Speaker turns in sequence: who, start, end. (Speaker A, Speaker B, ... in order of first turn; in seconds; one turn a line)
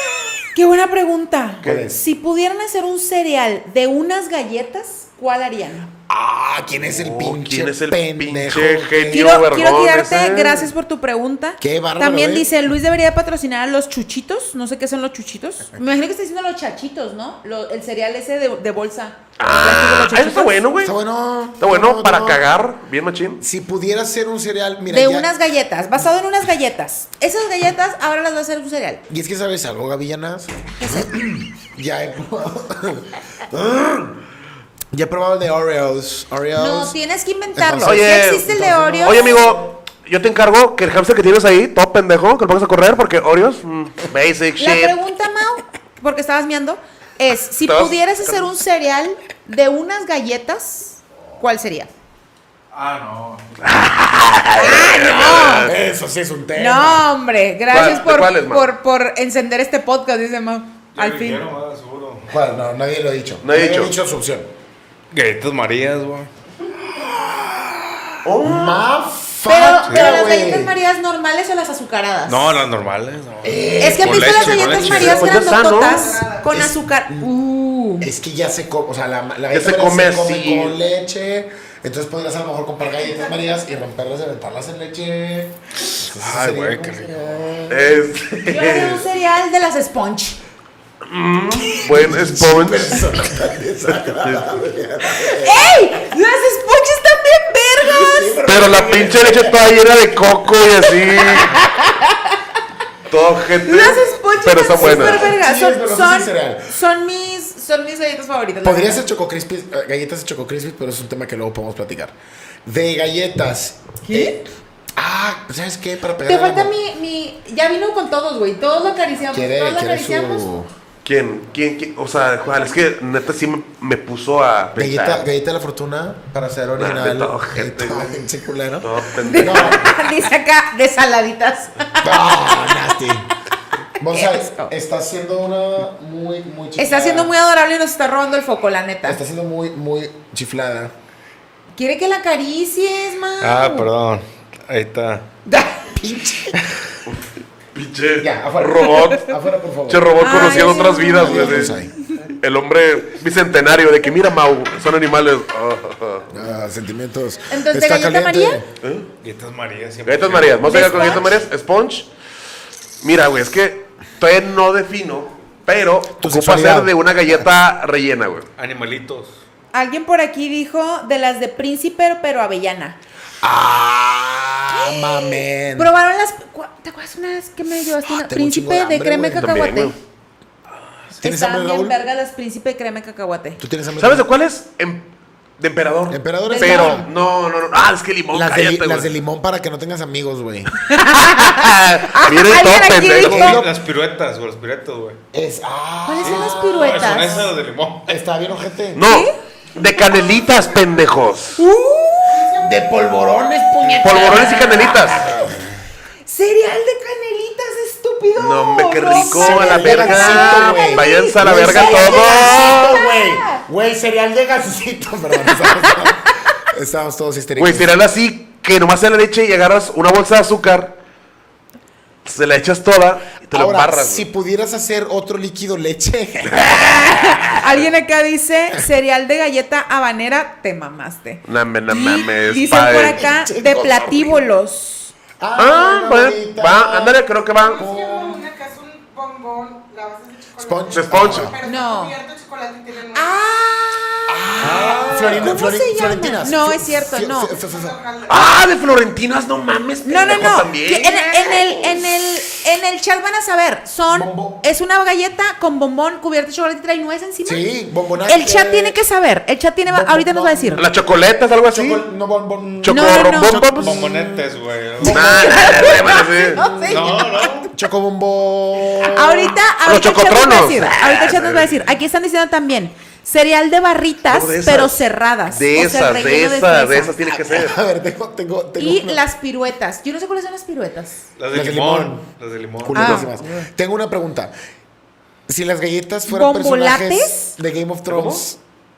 Speaker A: 0.5-5.9
Speaker B: 1.6-1.9
Speaker C: 1.6-2.0
Speaker C: 6.1-9.3
Speaker B: 6.8-10.7
Speaker A: 9.1-20.6
Speaker C: 11.6-12.5
Speaker B: 19.4-20.9
Speaker C: 20.8-22.4
Speaker B: 21.6-23.4
Speaker C: 23.4-25.3
Speaker A: 24.9-29.0
Speaker C: 29.1-34.2
Speaker A: 30.8-31.1
Speaker C: 34.9-37.0
Speaker A: 36.5-39.4
Speaker C: 37.5-39.7
Speaker B: 37.8-38.5
Speaker B: 39.0-45.0
Speaker A: 44.6-51.9
Speaker B: 47.7-48.4
Speaker D: 52.7-53.6
Speaker B: 53.6-55.7
Speaker A: 54.5-55.7
Speaker C: 55.6-57.1
Speaker A: 56.5-61.5
Speaker B: 57.7-58.7
Speaker D: 60.9-62.3
Speaker C: 62.3-64.5
Speaker B: 63.4-63.9
Speaker D: 65.1-66.3
Speaker D: 67.0-67.5
Speaker B: 68.2-68.8
Speaker C: 68.4-70.7
Speaker A: 69.5-72.6
Speaker D: 69.8-70.2
Speaker D: 72.2-75.3
Speaker C: 73.4-75.5
Speaker A: 73.8-78.0
Speaker B: 74.8-76.2
Speaker E: 75.7-76.5
Speaker C: 76.5-77.3
Speaker C: 78.0-88.1
Speaker B: 79.5-80.8
Speaker D: 86.1-87.3
Speaker B: 87.7-89.0
Speaker A: 88.4-90.4
Speaker B: 91.0-93.1
Speaker C: 91.7-95.7
Speaker B: 94.1-94.5
Speaker A: 95.2-98.4
Speaker C: 97.8-99.6
Speaker B: 98.4-101.5
Speaker A: 101.2-102.4
Speaker B: 103.1-105.3
Speaker A: 103.6-109.0
Speaker C: 104.7-106.7
Speaker C: 108.6-114.4
Speaker A: 114.0-114.4
Speaker C: 115.0-116.7
Speaker A: 116.2-120.5
Speaker C: 119.3-120.7
Speaker B: 121.0-125.2
Speaker C: 124.8-129.9
Speaker B: 126.8-128.2
Speaker B: 128.8-129.9
Speaker A: 129.2-133.1
Speaker C: 132.0-133.3
Speaker C: 134.0-137.3
Speaker A: 134.1-134.7
Speaker A: 136.8-139.2
Speaker C: 139.1-140.9
Speaker A: 141.8-143.9
Speaker D: 143.4-145.3
Speaker A: 145.4-145.9
Speaker C: 145.9-147.0
Speaker B: 147.7-149.3
Speaker C: 148.2-151.9
Speaker B: 149.9-156.3
Speaker A: 150.2-152.2
Speaker C: 156.3-158.7
Speaker A: 157.5-158.6
Speaker B: 158.8-159.1
Speaker D: 159.2-161.1
Speaker B: 160.0-162.1
Speaker A: 160.6-161.4
Speaker B: 163.0-168.5
Speaker C: 166.2-167.5
Speaker D: 168.6-169.4
Speaker A: 169.7-173.0
Speaker C: 173.4-175.9
Speaker A: 174.7-179.9
Speaker C: 178.1-179.7
Speaker B: 179.4-179.9
Speaker A: 181.2-183.6
Speaker C: 181.2-182.0
Speaker C: 183.6-184.3
Speaker B: 184.0-189.1
Speaker C: 186.1-187.1
Speaker A: 186.5-187.1
Speaker C: 188.3-190.7
Speaker A: 190.8-193.6
Speaker B: 191.2-193.6
Speaker C: 193.2-193.7
Speaker D: 193.3-195.2
Speaker C: 195.3-197.4
Speaker A: 196.0-197.4
Speaker D: 196.2-198.2
Speaker C: 198.1-199.1
Speaker B: 198.9-201.6
Speaker A: 199.0-200.4
Speaker A: 201.6-202.5
Speaker E: 202.2-203.4
Speaker C: 202.6-205.6
Speaker B: 204.0-205.3
Speaker A: 204.1-205.6
Speaker A: 206.2-213.6
Speaker B: 208.4-213.0
Speaker C: 209.1-217.9
Speaker A: 215.4-216.3
Speaker B: 217.6-221.0
Speaker B: 222.2-224.2
Speaker C: 223.5-227.1
Speaker B: 226.5-227.4
Speaker A: 226.7-235.1
Speaker B: 231.4-233.3
Speaker C: 233.0-234.4
Speaker C: 235.4-237.2
Speaker B: 235.6-237.8
Speaker E: 237.6-243.3
Speaker C: 237.8-238.4
Speaker C: 240.6-241.6
Speaker B: 240.9-241.5
Speaker A: 241.6-242.2
Speaker A: 243.1-247.5
Speaker C: 244.3-248.0
Speaker D: 244.6-245.6
Speaker E: 247.5-248.6
Speaker B: 248.3-252.1
Speaker A: 250.0-257.6
Speaker C: 254.1-254.6
Speaker C: 257.4-259.0
Speaker A: 258.3-260.8
Speaker C: 259.9-260.9
Speaker B: 260.8-262.0
Speaker C: 261.7-267.1
Speaker B: 262.8-264.0
Speaker A: 262.9-263.6
Speaker D: 263.8-265.5
Speaker B: 265.0-266.6
Speaker A: 265.1-267.6
Speaker D: 266.8-267.7
Speaker C: 267.7-269.6
Speaker A: 269.0-277.1
Speaker B: 269.8-271.8
Speaker B: 274.3-277.8
Speaker C: 277.3-279.2
Speaker A: 278.8-281.3
Speaker D: 281.4-283.2
Speaker C: 281.5-282.2
Speaker C: 282.8-284.5
Speaker A: 282.9-283.7
Speaker C: 285.5-288.6
Speaker A: 286.3-287.5
Speaker B: 288.1-288.4